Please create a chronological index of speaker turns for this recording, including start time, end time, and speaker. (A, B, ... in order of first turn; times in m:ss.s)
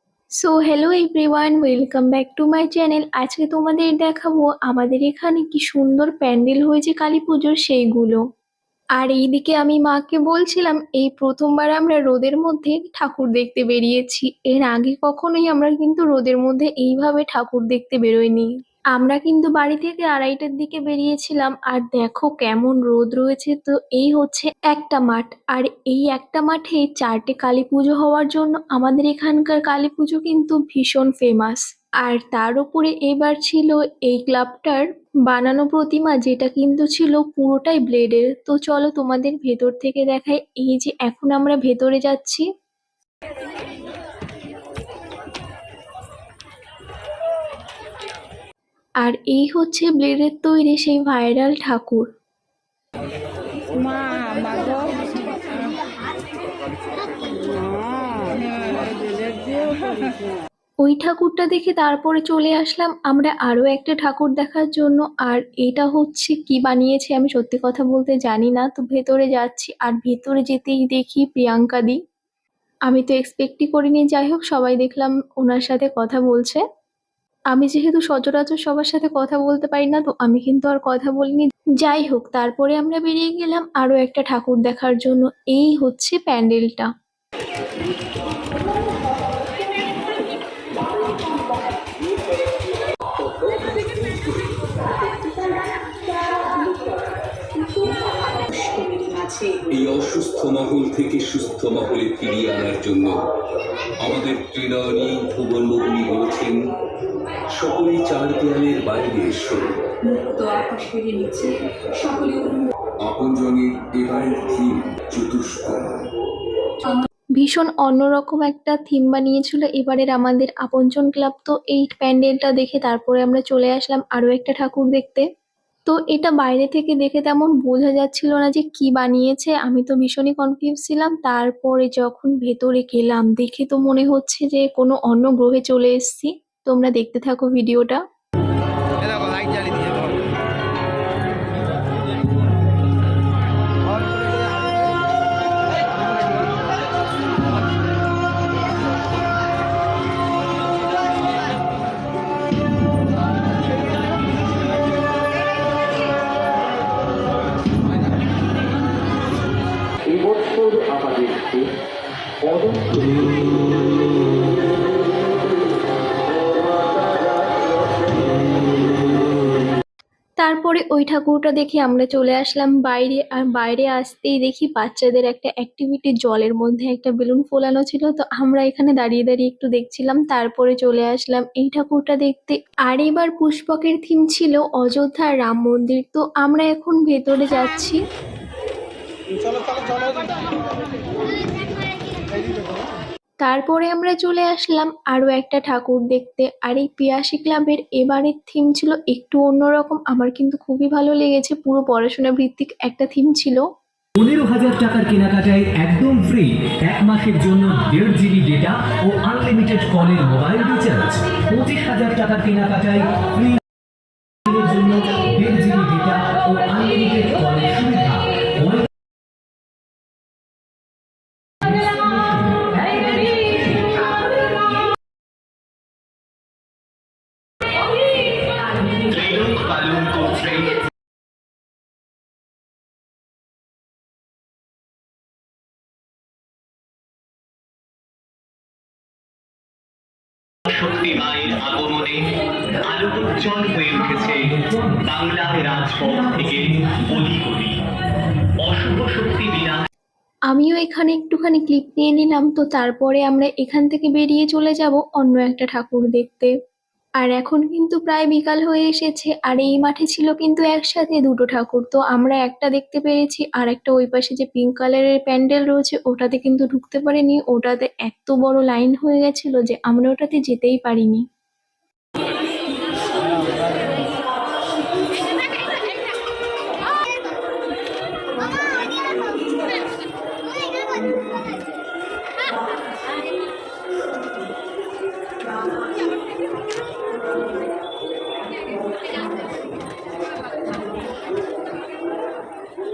0:00.4-0:08.2 A
0:09.0-0:42.5 A
0:49.0-0:52.1 A
0:53.8-0:55.2 B
0:59.3-1:00.0 B
1:00.8-1:12.0 A
1:12.9-1:16.6 A
1:17.5-1:26.9 A
1:31.0-1:32.0 B
1:33.4-1:34.0 C
1:35.2-1:37.1 B
1:37.6-1:39.6 B
1:39.7-1:43.2 C
1:44.0-1:46.6 C
1:47.5-1:49.8 C
1:50.0-1:52.7 B
1:53.0-1:56.1 C
1:57.4-2:05.3 A
2:05.9-2:18.0 A
2:40.2-2:41.6 C
2:42.8-2:43.2 C
2:50.4-3:08.0 A
3:13.4-3:23.6 A
3:24.2-3:33.5 D
3:34.5-3:38.8 D
3:41.8-3:43.8 D
3:48.9-3:50.8 E
4:00.7-4:07.7 E
4:08.6-4:09.8 E
4:10.5-4:16.5 A
4:17.2-4:31.2 A